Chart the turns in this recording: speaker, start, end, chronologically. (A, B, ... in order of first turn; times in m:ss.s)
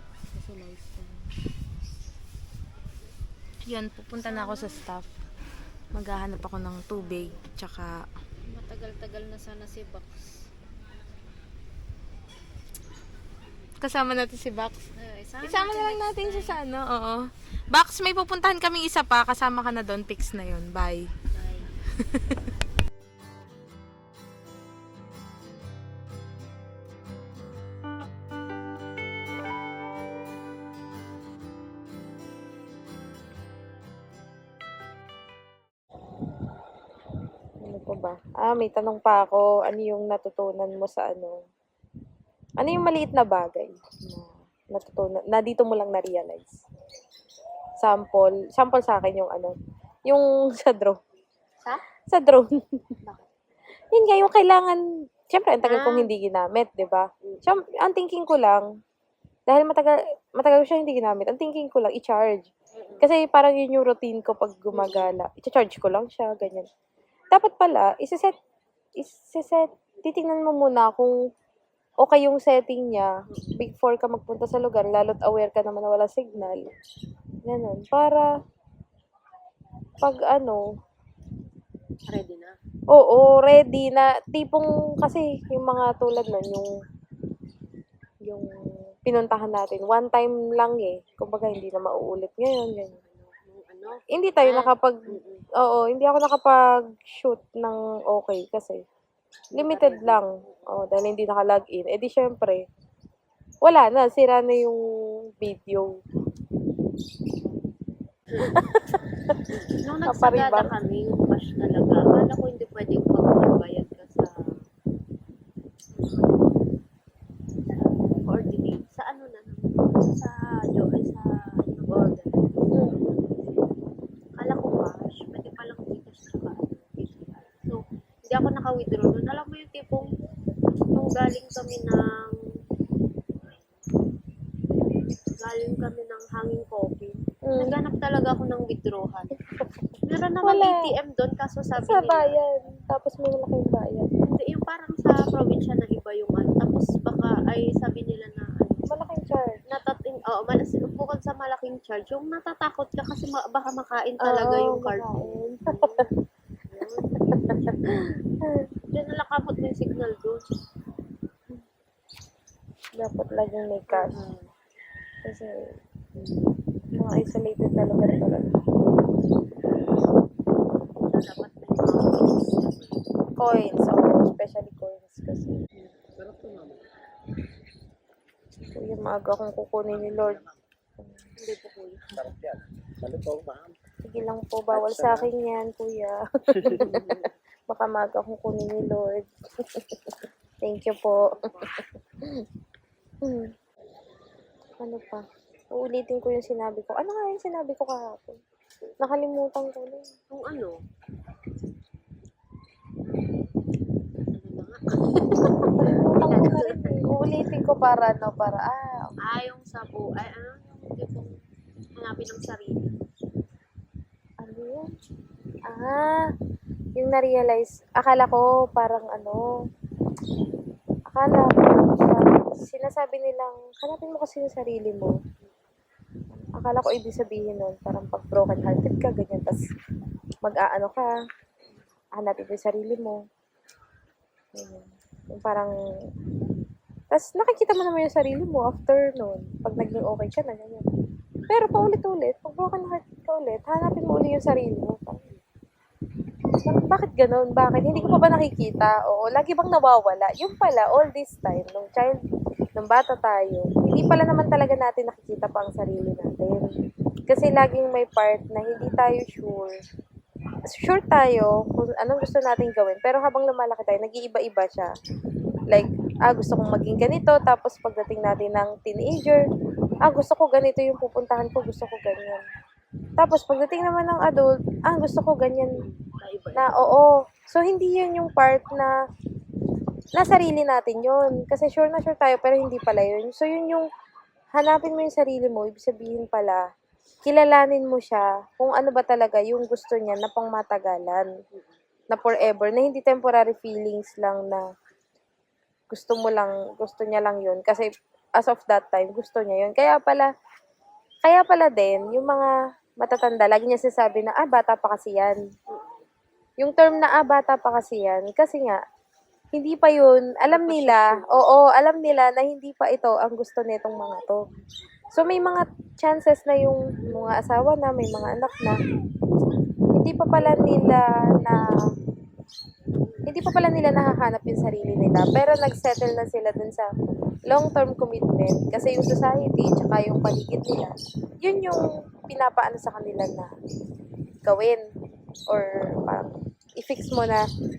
0:00.3-0:01.2 A
0:03.7-0:05.1 A
0:04.2-0:04.8 B
0:05.9-0:08.0 A
0:07.0-0:07.4 B
0:08.5-0:10.4 B
0:13.8-0:14.8 A
0:14.9-0:16.6 B
0:15.4-0:21.1 A
0:21.3-0:21.7 B
0:22.1-0:22.5 A
0:37.6-0:41.4 A
0:42.6-0:46.6 A
0:47.8-0:49.5 A
0:50.1-0:51.0 A
0:52.1-0:52.8 A
0:53.9-0:58.6 A
0:55.6-0:56.1 B
0:59.5-1:02.5 A
1:02.8-1:03.1 B
1:03.0-1:06.7 A
1:04.7-1:05.1 B
1:07.3-1:08.3 A
1:09.0-1:11.1 A
1:12.0-1:16.7 A
1:17.5-1:18.3 A
1:20.0-1:20.6 A
1:22.1-1:22.5 B
1:22.9-1:26.7 A
1:29.0-1:33.0 A
1:32.9-1:35.4 B
1:34.1-1:35.1 A
1:35.6-1:38.8 A
1:39.5-1:40.7 B
1:39.5-1:42.6 A
1:43.6-1:44.8 A
1:45.4-1:45.9 A
1:48.4-1:49.0 A
1:49.7-1:54.3 B
1:50.0-1:50.7 A
1:56.0-1:56.5 B
1:57.7-2:03.7 B
2:02.7-2:03.0 A
2:04.4-2:10.1 B
2:10.9-2:12.3 B
2:15.3-2:19.4 B
2:17.4-2:17.7 A
2:19.5-2:19.8 A
2:20.0-2:22.4 B
2:20.4-2:20.8 A
2:21.8-2:24.1 A
2:24.3-2:28.9 B
2:28.9-2:29.6 A
2:29.7-2:36.1 B
2:34.2-2:35.6 A
2:36.7-2:37.2 B
2:37.5-2:38.6 A
2:38.9-2:40.4 B
2:43.0-2:44.2 A
2:43.9-2:44.5 B
2:45.2-2:45.6 A
2:46.2-2:46.5 B
2:47.0-2:48.5 A
2:51.0-2:53.0 B
2:53.4-2:55.6 A
2:56.2-2:56.8 C
2:58.7-3:00.4 A
3:01.4-3:02.2 B
3:02.2-3:03.7 C
3:04.0-3:06.9 A
3:04.7-3:05.3 C
3:06.7-3:07.2 B
3:07.7-3:11.3 A
3:11.2-3:11.7 B
3:13.2-3:13.5 A
3:14.8-3:18.4 A
3:19.0-3:20.1 A
3:20.3-3:20.8 B
3:23.1-3:23.4 B
3:24.2-3:27.0 B
3:25.8-3:29.1 A
3:29.2-3:31.3 B
3:32.0-3:33.0 B
3:34.4-3:34.9 A
3:35.7-3:36.2 A
3:37.0-3:39.5 A
3:41.1-3:45.1 A
3:46.3-3:49.6 A
3:50.4-3:51.1 A
3:52.1-3:53.2 A
3:54.5-3:55.7 A
3:57.1-4:00.8 A
4:01.5-4:05.2 A
4:06.7-4:12.2 A
4:07.9-4:08.3 B
4:12.8-4:16.7 A
4:17.3-4:19.7 A
4:20.7-4:24.9 A
4:25.7-4:29.4 A
4:30.0-4:32.4 A
4:33.2-4:35.8 A
4:35.8-4:36.8 B
4:36.6-4:38.9 A
4:40.1-4:43.9 A
4:44.6-4:46.6 A
4:47.2-4:51.3 A
4:52.1-4:54.6 A
4:55.9-4:57.9 A
4:58.4-5:00.3 A
5:01.2-5:02.5 A
5:03.0-5:05.4 A
5:05.7-5:06.0 B
5:06.6-5:08.8 A
5:09.5-5:14.4 A
5:10.5-5:11.6 B
5:15.1-5:18.8 A
5:19.9-5:21.6 A
5:23.3-5:26.9 A
5:27.5-5:33.5 A
5:34.4-5:34.8 A
5:35.5-5:37.4 A